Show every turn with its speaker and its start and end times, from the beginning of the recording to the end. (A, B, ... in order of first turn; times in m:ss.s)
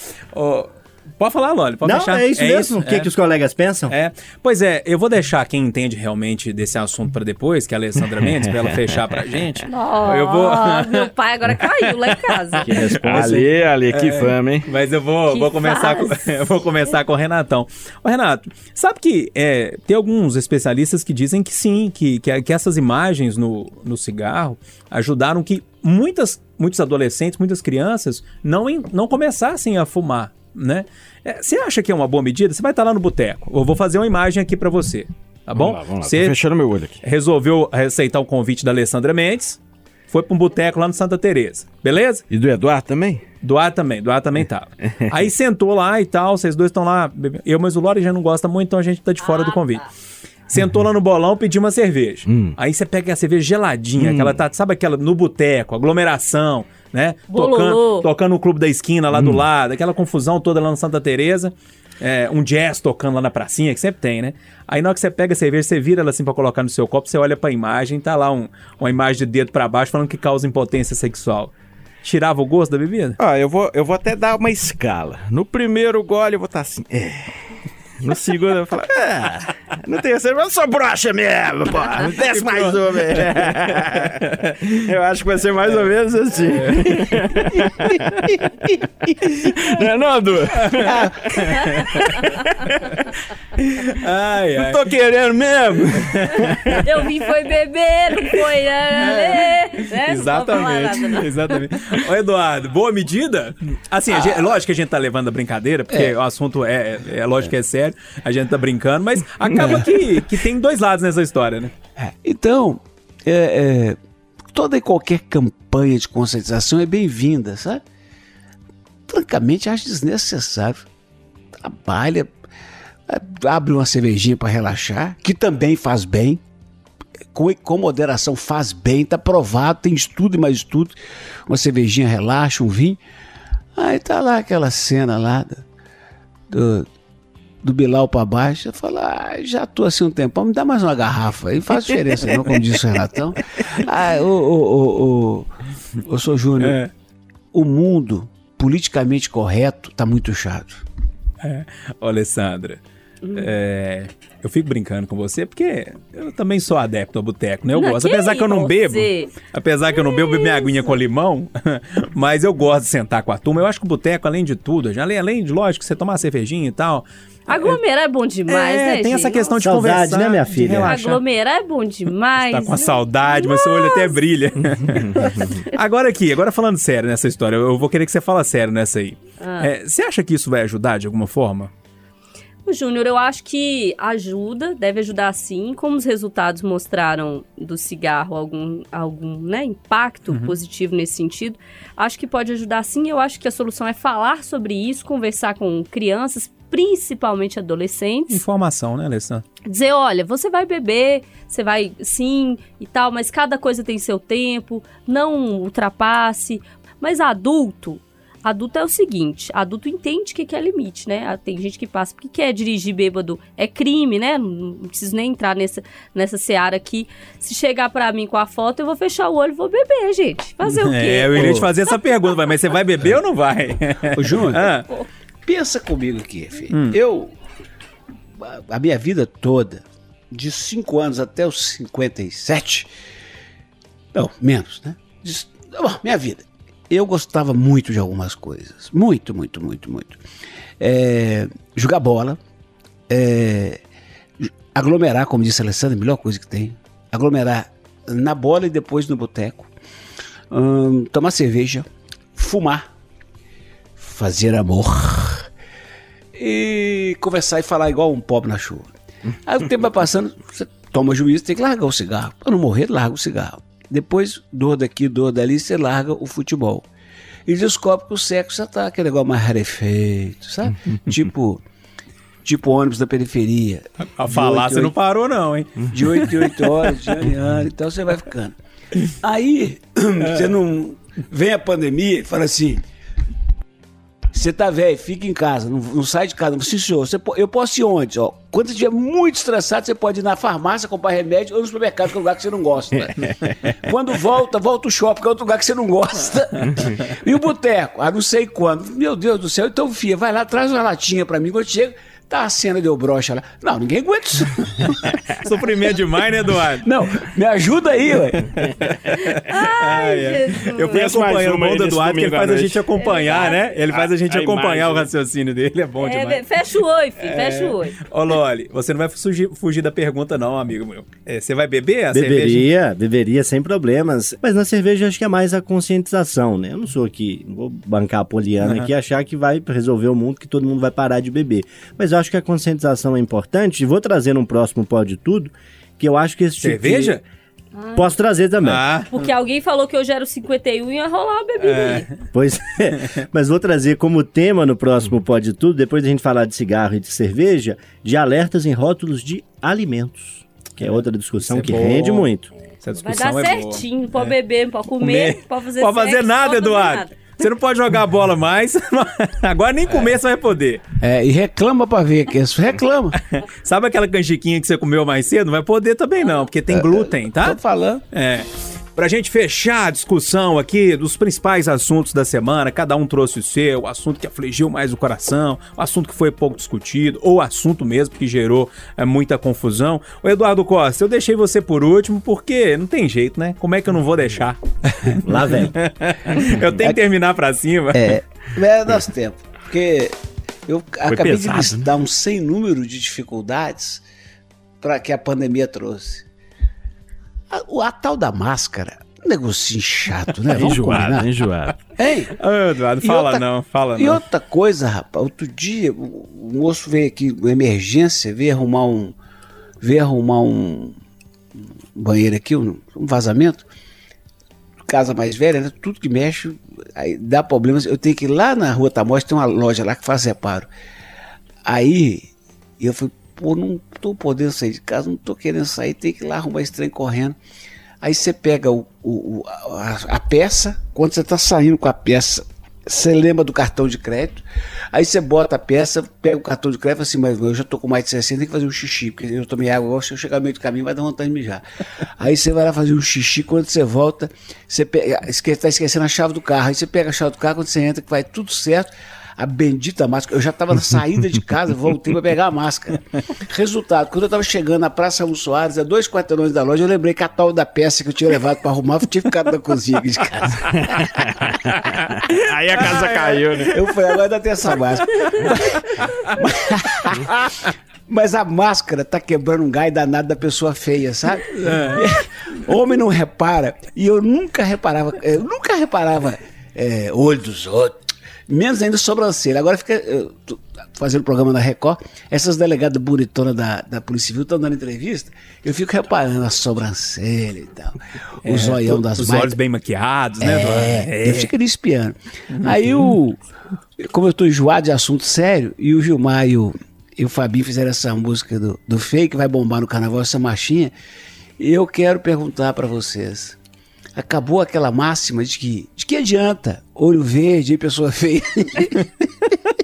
0:00.3-0:03.1 A
0:01.8-0:03.9 B
0:03.9-0:36.4 A
0:08.2-0:08.9 C
0:09.7-0:12.7 D
0:12.6-0:13.5 B
0:13.0-0:14.7 C
0:15.3-0:16.3 D
0:35.5-0:37.0 C
0:37.0-0:39.6 A
0:40.1-0:42.2 A
0:42.3-0:43.2 C
0:43.4-0:49.8 A
0:44.8-0:45.1 C
0:49.2-0:49.8 D
0:50.5-1:11.5 A
0:52.3-0:52.6 C
0:54.0-0:54.4 C
0:57.3-0:58.1 D
0:59.1-0:59.4 C
1:12.0-1:13.2 A
1:13.2-1:17.4 C
1:18.0-1:33.0 C
1:22.3-1:24.8 A
1:26.7-1:27.3 A
1:30.6-1:30.9 A
1:30.8-1:31.2 E
1:31.7-1:32.2 A
1:33.9-1:34.8 A
1:34.6-1:36.8 C
1:35.9-1:36.8 A
1:36.8-1:41.6 D
1:39.0-1:51.7 A
1:44.1-1:44.5 E
1:49.6-1:49.8 E
1:52.0-1:54.0 E
1:54.5-1:57.8 E
1:59.1-2:00.8 E
2:01.6-2:02.3 E
2:03.1-2:06.4 E
2:07.3-2:10.9 E
2:11.5-2:13.0 E
2:13.8-2:15.6 E
2:16.5-2:16.9 E
2:17.6-2:25.5 E
2:26.0-2:26.8 E
2:26.6-2:26.9 A
2:27.5-2:30.8 E
2:31.4-2:32.8 A
2:33.2-2:33.5 D
2:33.3-2:47.8 A
2:37.7-2:39.3 D
2:39.9-2:40.9 D
2:47.5-2:49.6 D
2:48.5-2:51.2 A
2:49.6-2:51.0 B
2:50.8-2:54.2 D
2:52.4-3:01.7 A
2:59.4-2:59.7 D
3:02.6-3:18.4 D
3:10.3-3:10.5 A
3:18.3-3:19.4 A
3:19.6-3:41.6 D
3:40.6-3:44.9 A
3:41.3-3:41.7 E
3:44.1-3:44.8 E
3:45.4-3:47.3 E
3:46.7-3:47.0 A
3:48.4-3:52.9 E
3:54.1-4:00.2 E
4:00.8-4:02.4 E
4:03.1-4:03.8 E
4:04.4-4:09.7 E
4:10.5-4:12.9 E
4:14.0-4:15.5 E
4:16.3-4:18.9 E
4:19.4-4:26.9 E
4:27.4-4:31.6 E
4:32.4-4:34.9 E
4:34.0-4:36.7 A
4:35.9-4:38.6 E
4:39.2-4:42.8 E
4:44.3-5:05.1 E
5:05.4-5:06.9 A
5:06.8-5:08.6 E
5:08.5-5:16.4 A
5:09.2-5:11.0 D
5:10.9-5:15.1 C
5:13.0-5:13.6 D
5:16.0-5:18.0 D
5:17.2-5:22.6 A
5:22.1-5:37.2 B
5:28.6-5:28.9 A
5:36.6-5:37.2 A
5:37.8-5:38.0 D
5:37.9-5:38.8 B
5:38.6-5:39.1 A
5:39.1-5:42.1 D
5:41.6-5:42.1 A
5:42.3-5:52.5 B
5:50.8-5:52.3 A
5:52.8-5:54.3 A
5:53.0-5:57.1 D
5:55.0-6:00.8 A
6:01.0-6:03.2 E
6:03.4-6:07.6 A
6:06.7-6:08.0 E
6:08.1-6:28.2 A
6:25.2-6:25.7 B
6:27.9-6:34.0 E
6:31.1-6:31.9 C
6:34.8-6:36.2 E
6:37.5-6:41.3 E
6:40.5-6:41.8 C
6:42.0-6:42.4 E
6:42.4-6:44.2 A
6:43.0-6:49.1 E
6:49.8-6:50.9 E
6:51.9-6:53.6 E
6:54.9-7:00.7 E
7:01.6-7:07.4 E
7:08.0-7:41.0 E
7:40.7-7:43.8 C
7:43.6-8:09.6 E
7:51.5-7:52.0 A
8:08.4-8:11.5 A
8:10.4-8:13.4 E
8:12.5-8:12.9 A
8:14.0-8:20.9 E
8:21.6-8:23.6 E
8:24.2-8:29.5 E